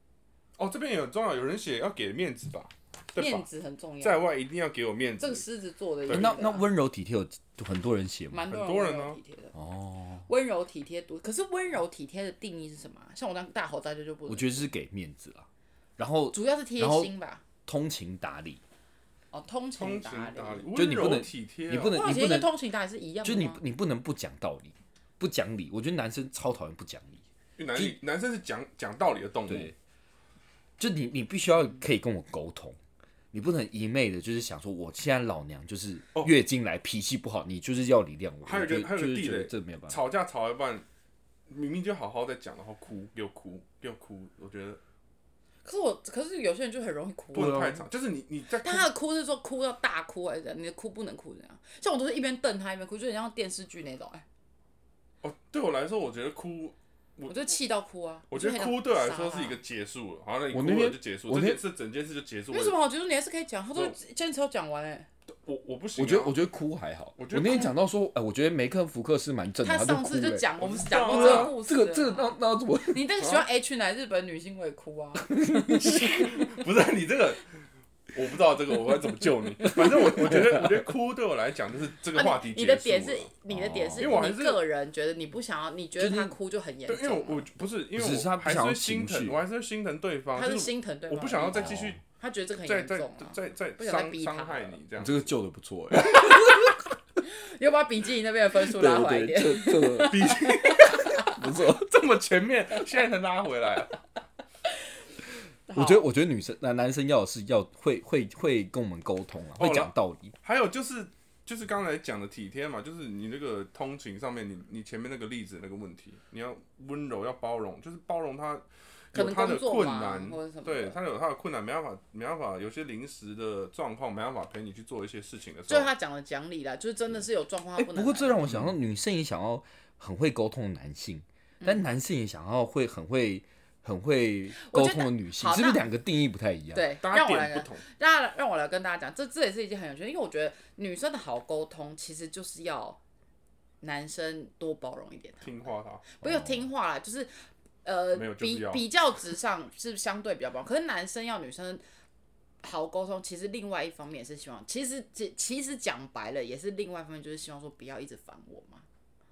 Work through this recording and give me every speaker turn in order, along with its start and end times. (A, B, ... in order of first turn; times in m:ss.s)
0:00.6-0:03.4 A
0:03.2-0:04.2 B
0:04.0-0:05.4 A
0:05.2-0:06.6 B
0:06.1-0:08.5 C
0:08.3-0:09.5 B
0:08.5-0:09.2 A
0:09.5-0:10.2 C
0:10.3-0:14.6 B
0:14.3-0:17.1 C
0:16.3-0:17.4 B
0:17.6-0:18.6 C
0:19.3-0:20.7 B
0:19.8-0:22.0 A
0:20.7-0:22.5 C
0:21.8-0:23.6 B
0:23.2-0:28.0 C
0:27.6-0:29.7 A
0:29.5-0:29.7 C
0:30.8-0:32.8 C
0:33.3-0:40.0 C
0:38.4-0:40.8 A
0:41.5-0:44.8 A
0:45.6-0:47.7 B
0:47.3-0:48.9 A
0:47.3-0:47.8 C
0:48.6-0:54.2 B
0:55.2-0:57.5 A
0:57.3-0:59.6 B
0:58.3-1:02.8 A
1:00.5-1:01.6 C
1:02.5-1:05.1 B
1:05.4-1:06.4 A
1:06.0-1:10.5 C
1:07.2-1:07.7 A
1:09.6-1:16.4 B
1:10.6-1:11.5 A
1:11.1-1:13.1 C
1:13.2-1:13.4 A
1:15.3-1:16.2 C
1:16.2-1:17.4 A
1:18.1-1:23.3 A
1:20.2-1:20.6 C
1:22.1-1:27.5 B
1:23.5-1:24.2 C
1:24.0-1:24.6 A
1:26.0-1:26.3 C
1:26.9-1:32.0 A
1:27.9-1:29.4 C
1:30.3-1:34.8 B
1:31.5-1:32.0 C
1:32.6-1:35.3 A
1:35.0-1:36.7 C
1:37.2-1:41.0 B
1:38.6-1:40.4 C
1:40.1-1:44.0 A
1:41.2-1:41.9 C
1:45.7-1:46.0 B
1:45.7-1:50.3 C
1:49.6-2:05.9 A
1:59.1-2:01.0 B
2:05.7-2:08.5 B
2:07.8-2:16.9 C
2:08.5-2:08.7 A
2:14.5-2:15.9 B
2:16.7-2:23.0 B
2:17.0-2:17.8 A
2:23.8-2:31.8 B
2:25.4-2:26.0 A
2:26.2-2:26.6 C
2:28.1-2:28.8 A
2:32.6-2:38.8 B